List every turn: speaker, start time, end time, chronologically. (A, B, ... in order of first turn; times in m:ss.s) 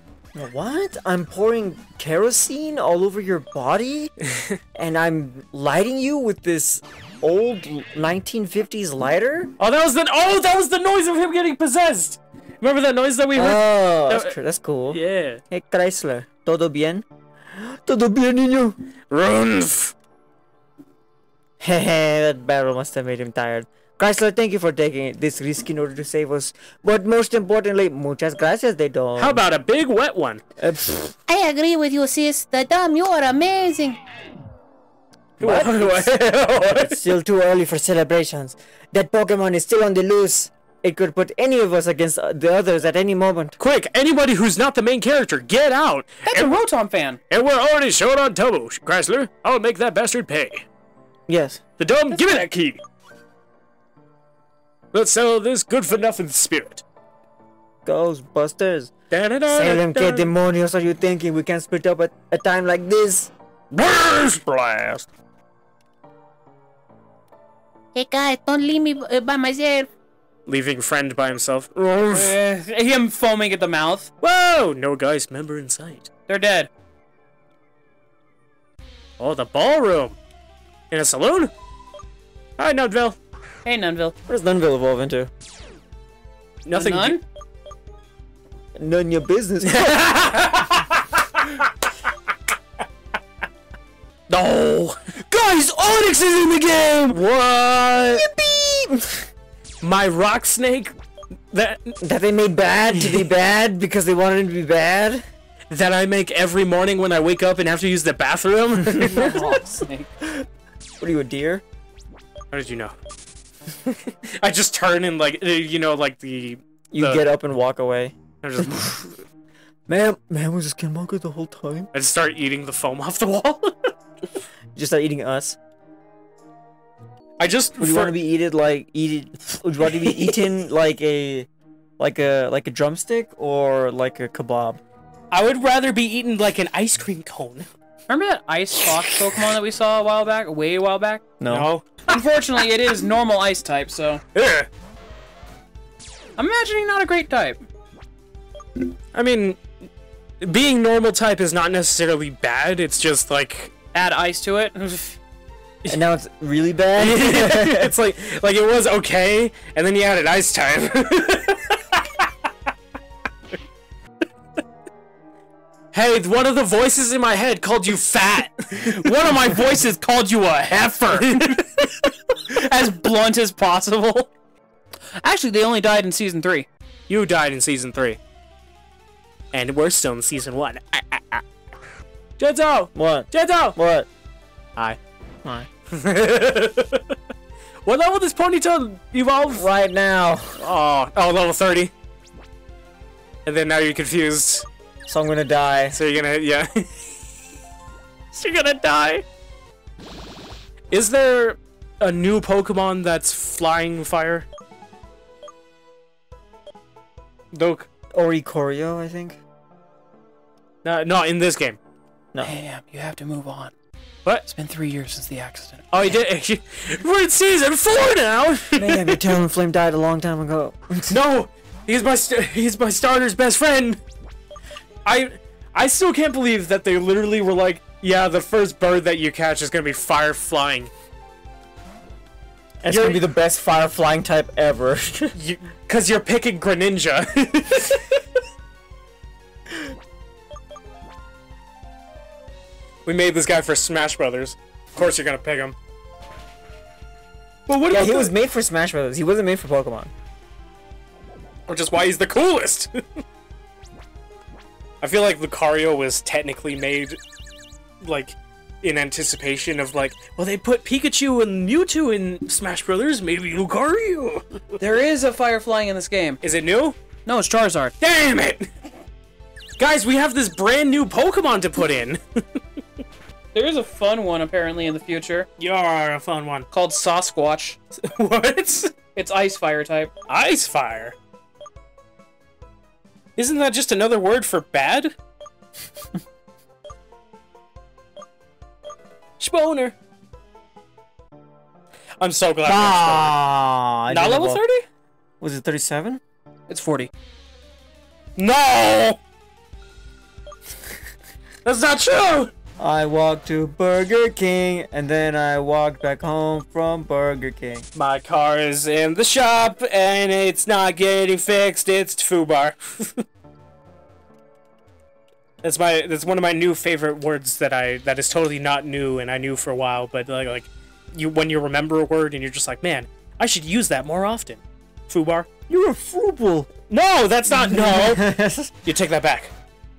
0:00.3-0:04.1 A
0:04.7-0:09.5 A
0:09.6-0:14.4 B
0:13.3-0:18.8 A
0:14.9-0:15.4 B
0:19.1-0:19.9 B
0:21.6-0:29.4 A
0:29.2-0:30.4 B
0:30.6-0:31.1 A
0:31.3-0:34.0 C
0:35.4-0:37.0 B
0:35.4-0:43.6 A
0:43.6-0:46.6 B
0:46.2-0:47.2 D
0:47.3-0:50.6 B
0:51.3-0:51.6 A
0:51.8-0:52.8 B
0:54.9-0:56.8 B
0:57.8-0:58.9 A
0:59.1-1:00.3 B
0:59.5-1:03.3 A
1:03.7-1:05.0 B
1:07.9-1:09.9 C
1:10.5-1:12.4 B
1:12.1-1:14.1 D
1:14.2-1:16.1 B
1:16.3-1:16.7 D
1:19.2-1:20.2 B
1:20.9-1:21.5 B
1:22.6-1:23.2 B
1:23.6-1:24.1 D
1:24.3-1:25.3 A
1:26.6-1:27.2 B
1:26.7-1:27.2 D
1:28.8-1:30.1 A
1:29.6-1:31.7 B
1:34.3-1:38.3 B
1:38.1-1:39.3 A
1:39.8-1:40.9 B
1:41.5-1:42.0 B
1:42.0-1:45.2 A
1:45.7-1:49.4 B
1:49.1-1:50.1 D
1:49.1-1:49.6 A
1:51.0-1:51.6 A
1:52.5-1:52.9 B
1:53.8-1:57.3 B
1:56.9-1:59.0 A
1:58.4-1:59.1 B
1:59.9-2:01.9 A
2:01.9-2:03.9 B
2:04.7-2:05.6 A
2:07.4-2:08.2 B
2:07.8-2:11.5 A
2:12.0-2:14.8 A
2:15.3-2:17.6 B
2:18.1-2:21.2 D
2:18.8-2:19.3 B
2:21.4-2:21.7 A
2:21.5-2:22.2 B
2:22.1-2:24.2 D
2:24.3-2:24.7 B
2:26.4-2:27.6 D
2:29.1-2:29.6 B
2:30.4-2:33.7 B
2:33.9-2:35.2 D
2:35.9-2:37.9 A
2:37.0-2:42.3 B
2:45.9-2:49.5 B
2:48.8-2:51.6 D
2:50.7-2:51.6 B
2:52.3-2:54.3 D
2:55.2-2:56.7 D
2:57.1-2:58.2 B
2:59.5-3:01.4 B
3:02.4-3:03.8 B
3:02.9-3:04.1 A
3:05.9-3:07.1 B
3:07.8-3:09.7 B
3:09.5-3:10.6 A
3:10.6-3:11.9 B
3:13.4-3:14.6 B
3:15.0-3:16.0 A
3:15.9-3:17.1 B
3:18.3-3:19.2 B
3:20.9-3:24.5 B
3:27.5-3:27.9 B
3:28.1-3:29.4 A
3:30.8-3:31.8 B
3:32.4-3:33.7 D
3:34.5-3:36.1 D
3:35.9-3:39.2 B
3:38.8-3:41.2 A
3:41.1-3:44.0 B
3:45.0-3:50.9 B
3:52.8-3:55.3 A
3:52.8-3:53.2 B
3:55.4-3:58.2 B
4:03.0-4:05.7 B
4:07.7-4:08.3 B
4:07.9-4:10.1 A
4:11.7-4:13.0 B
4:15.0-4:17.2 B
4:18.0-4:24.6 B
4:24.8-4:26.4 D
4:26.4-4:27.0 B
4:27.2-4:27.9 D
4:28.0-4:28.7 B
4:29.8-4:32.6 B
4:33.5-4:35.5 D
4:35.6-4:36.7 B
4:36.7-4:37.8 D
4:38.0-4:38.9 B
4:39.1-4:40.1 D
4:40.3-4:41.1 B
4:43.4-4:45.1 B
4:49.4-4:49.9 B
4:52.2-4:53.4 B
4:52.6-4:54.6 A
4:54.1-4:54.8 B
4:55.4-4:56.2 A
4:56.7-4:57.1 D
4:58.4-4:59.2 B
5:01.6-5:02.5 B
5:02.8-5:07.8 A
5:07.9-5:13.2 B
5:15.6-5:25.6 B
5:25.7-5:26.7 A
5:26.9-5:28.2 B
5:27.5-5:28.7 A
5:28.8-5:29.5 B